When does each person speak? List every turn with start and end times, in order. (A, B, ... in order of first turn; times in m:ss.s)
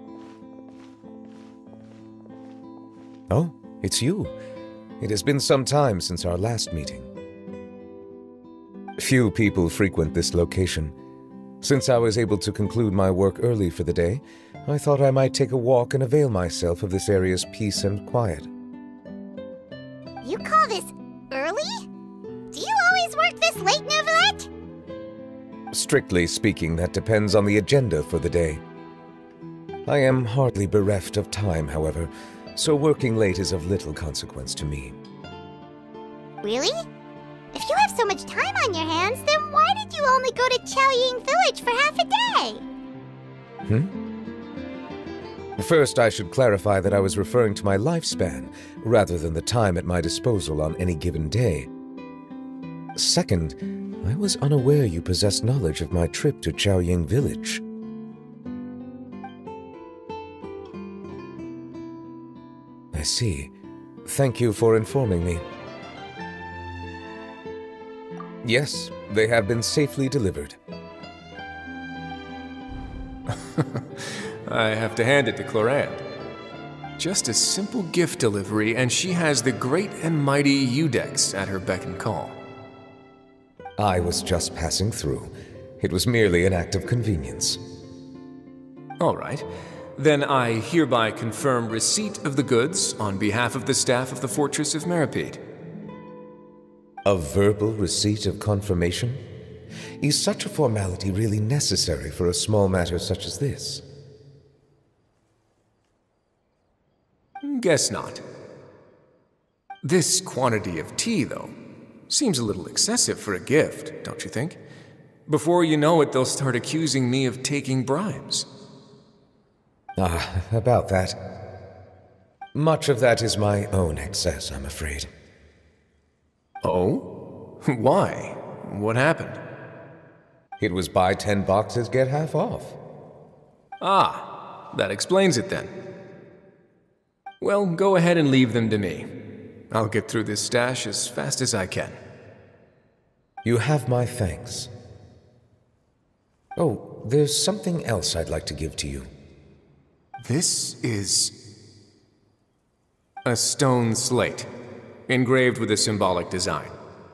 0:03.3-0:04.4 A
0:05.0-0:07.1 A
0:09.0-0:11.0 A
0:11.6-0:18.5 A
0:20.2-0:21.9 B
0:22.5-0:24.5 B
0:25.7-0:28.6 A
0:29.9-0:35.0 A
0:36.4-0:36.8 B
0:37.5-0:42.6 B
0:43.7-0:43.9 A
0:45.6-0:51.7 A
0:53.0-0:57.6 A
1:02.9-1:03.5 A
1:04.0-1:05.4 A
1:08.4-1:10.6 A
1:13.6-1:16.0 C
1:17.0-1:22.4 C
1:23.8-1:27.6 A
1:29.0-1:29.5 C
1:30.0-1:35.4 C
1:37.0-1:39.2 A
1:40.0-1:43.8 A
1:47.4-1:48.2 C
1:49.8-1:51.5 C
1:52.1-1:54.6 C
1:55.3-1:58.5 C
2:00.0-2:01.2 A
2:02.5-2:05.1 A
2:06.6-2:07.1 C
2:07.6-2:09.4 C
2:10.6-2:12.8 A
2:13.8-2:15.7 C
2:17.4-2:19.1 C
2:19.7-2:22.0 C
2:23.4-2:24.7 A
2:26.6-2:29.1 A
2:30.2-2:31.4 C
2:33.2-2:34.5 C
2:35.1-2:36.8 C